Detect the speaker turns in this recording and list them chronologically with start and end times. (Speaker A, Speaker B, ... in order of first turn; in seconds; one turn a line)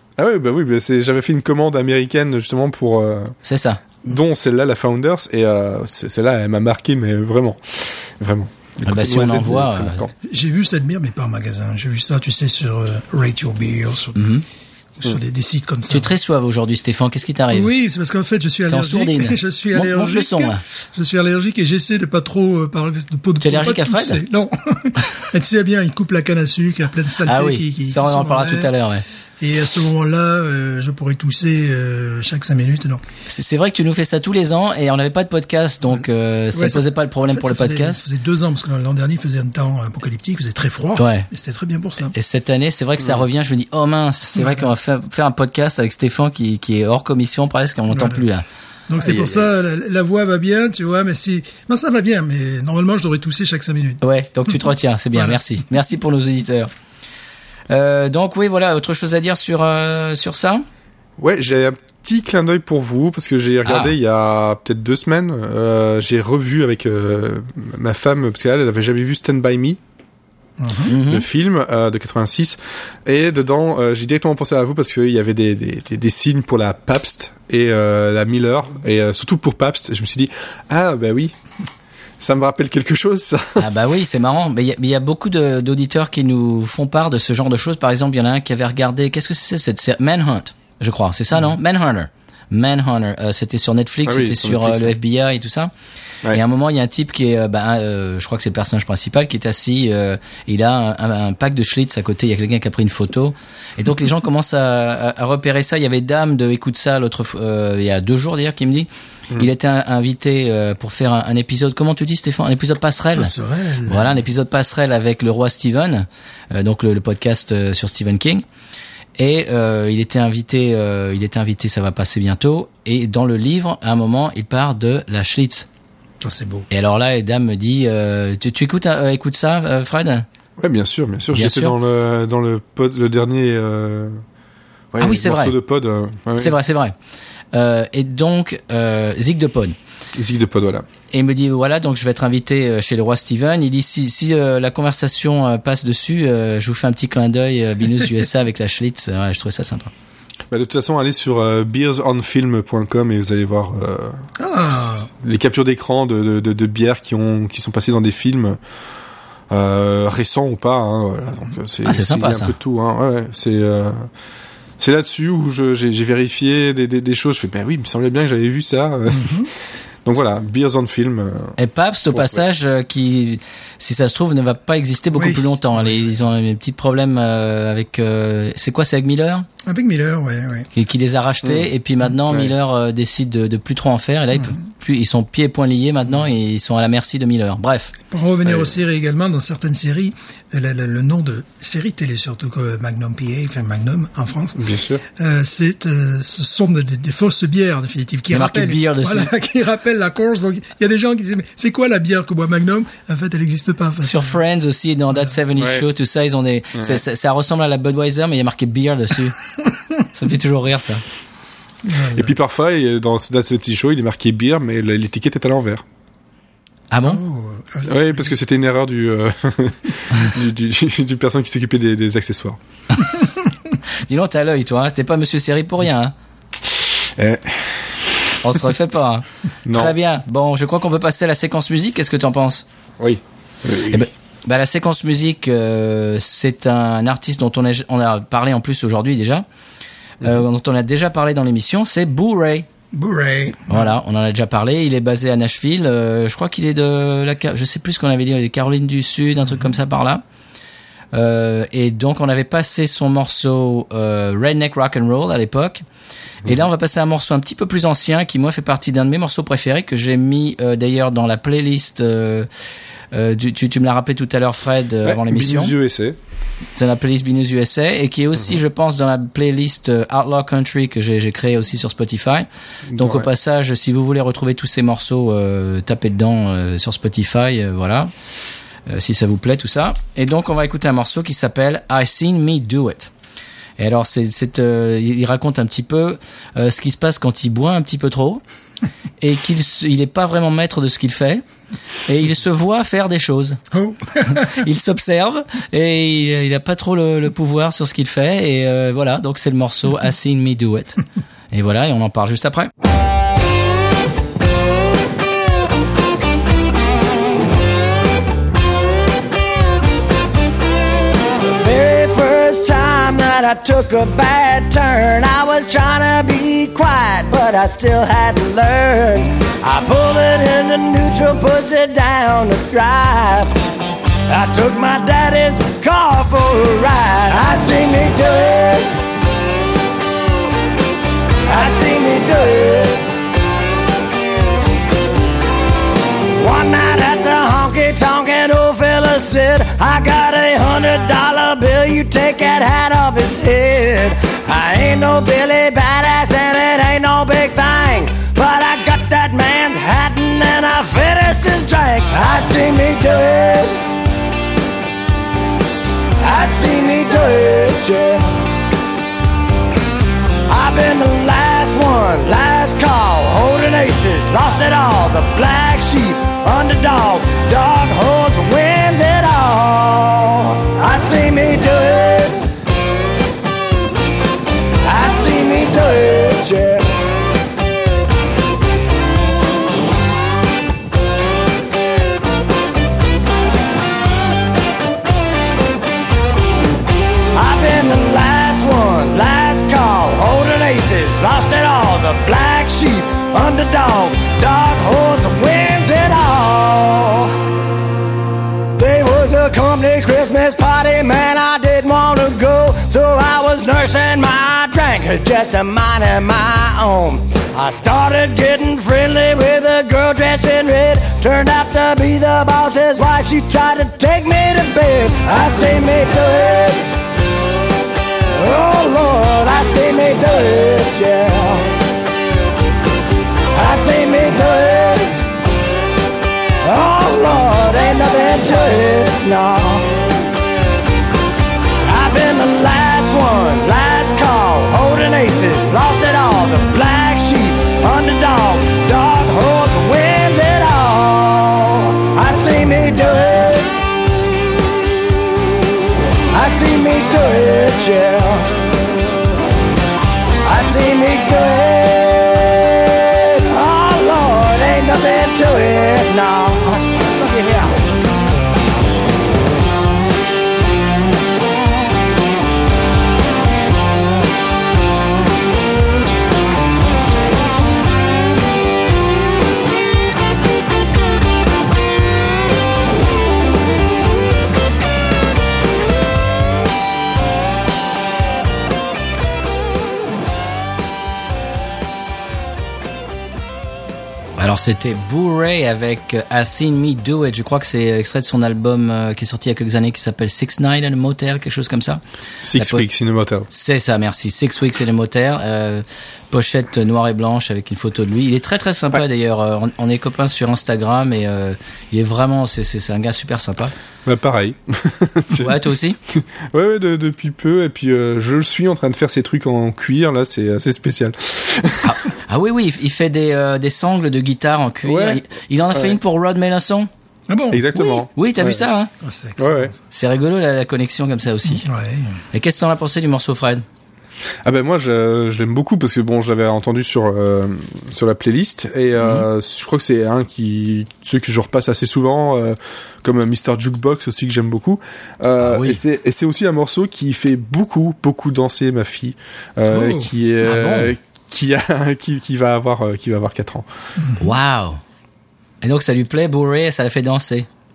Speaker A: 0.2-3.4
Speaker B: 3.4-3.8
Speaker A: 4.0-10.1
Speaker B: 8.8-10.0
Speaker C: 10.2-14.2
Speaker B: 14.2-14.4
Speaker C: 15.0-16.1
Speaker B: 15.9-17.7
Speaker C: 17.5-28.7
Speaker B: 18.7-20.6
Speaker B: 23.4-24.2
Speaker B: 27.2-29.1
Speaker C: 29.4-33.0
Speaker B: 33.3-38.0
Speaker C: 36.5-42.1
Speaker B: 41.0-41.3
Speaker B: 42.1-48.5
Speaker C: 44.4-44.7
Speaker C: 47.9-48.2
Speaker C: 48.9-54.0
Speaker A: 49.0-49.5
Speaker B: 54.0-56.7
Speaker B: 57.7-60.7
Speaker A: 61.2-69.8
Speaker B: 63.7-63.9
Speaker C: 70.6-70.9
Speaker B: 70.8-71.3
Speaker A: 70.9-81.3
Speaker A: 82.2-83.7
Speaker B: 83.6-95.7
Speaker A: 94.1-94.9
Speaker B: 96.3-113.3
Speaker C: 113.2-114.1
Speaker B: 113.9-118.4
Speaker B: 119.2-125.7
Speaker C: 126.2-126.7
Speaker B: 126.7-130.3
Speaker A: 130.6-134.2
Speaker B: 131.3-131.8
Speaker A: 134.9-136.5
Speaker B: 135.0-135.6
Speaker B: 136.4-136.9
Speaker B: 137.5-139.8
Speaker A: 140.2-140.9
Speaker B: 141.1-149.9
Speaker A: 150.5-154.2
Speaker C: 154.4-155.1
Speaker A: 155.2-158.6
Speaker A: 159.5-164.1
Speaker B: 161.8-162.6
Speaker A: 164.8-169.5
Speaker C: 169.1-169.5
Speaker A: 170.1-171.6
Speaker B: 171.6-179.5
Speaker A: 172.1-172.4
Speaker C: 175.1-176.1
Speaker C: 179.7-180.7
Speaker B: 180.7-188.0
Speaker A: 182.3-182.5
Speaker C: 188.1-204.4
Speaker A: 194.6-195.0
Speaker B: 198.3-199.3
Speaker B: 204.0-209.4
Speaker A: 205.6-205.9
Speaker B: 210.1-211.0
Speaker C: 211.8-212.3
Speaker A: 212.2-215.8
Speaker B: 216.9-217.2
Speaker C: 217.0-218.2
Speaker A: 217.8-222.6
Speaker B: 224.0-226.1
Speaker A: 227.2-227.9
Speaker B: 228.4-232.7
Speaker A: 229.7-229.9
Speaker A: 233.0-234.0
Speaker B: 233.8-239.4
Speaker B: 240.2-242.7
Speaker C: 242.9-243.9
Speaker B: 243.7-250.2
Speaker B: 251.1-255.8
Speaker B: 256.4-262.5
Speaker B: 263.1-265.8
Speaker A: 265.1-266.2
Speaker B: 266.8-278.1
Speaker A: 272.9-273.3
Speaker B: 278.9-283.1
Speaker B: 283.8-288.4
Speaker B: 289.2-291.4
Speaker B: 292.1-293.6
Speaker C: 293.7-294.5
Speaker B: 294.2-301.0
Speaker B: 301.5-302.7
Speaker D: 311.4-323.5
Speaker D: 324.3-328.9
Speaker D: 331.4-333.0
Speaker D: 336.3-353.8
Speaker D: 356.2-358.4
Speaker D: 360.5-372.5
Speaker D: 374.8-376.9
Speaker D: 387.3-397.4
Speaker D: 398.8-416.9
Speaker D: 418.3-421.8
Speaker D: 423.5-425.2
Speaker D: 426.6-429.9
Speaker D: 431.8-443.8
Speaker D: 446.3-448.6
Speaker D: 450.4-457.9
Speaker B: 484.4-492.0
Speaker A: 492.4-493.5
Speaker B: 492.6-492.9
Speaker B: 493.5-503.7
Speaker A: 504.1-512.0
Speaker B: 505.4-506.0
Speaker B: 511.8-516.9
Speaker A: 514.9-516.0
Speaker C: 517.3-517.7
Speaker A: 517.5-518.6
Speaker B: 517.7-518.9
Speaker C: 519.0-519.8
Speaker A: 519.4-519.7
Speaker B: 519.9-521.7
Speaker C: 521.6-522.2
Speaker B: 522.3-523.6
Speaker A: 524.5-543.6
Speaker B: 529.0-529.2
Speaker B: 535.4-535.8
Speaker C: 539.7-540.1
Speaker B: 540.4-540.9
Speaker C: 544.0-544.2
Speaker B: 544.2-544.8
Speaker B: 545.6-547.5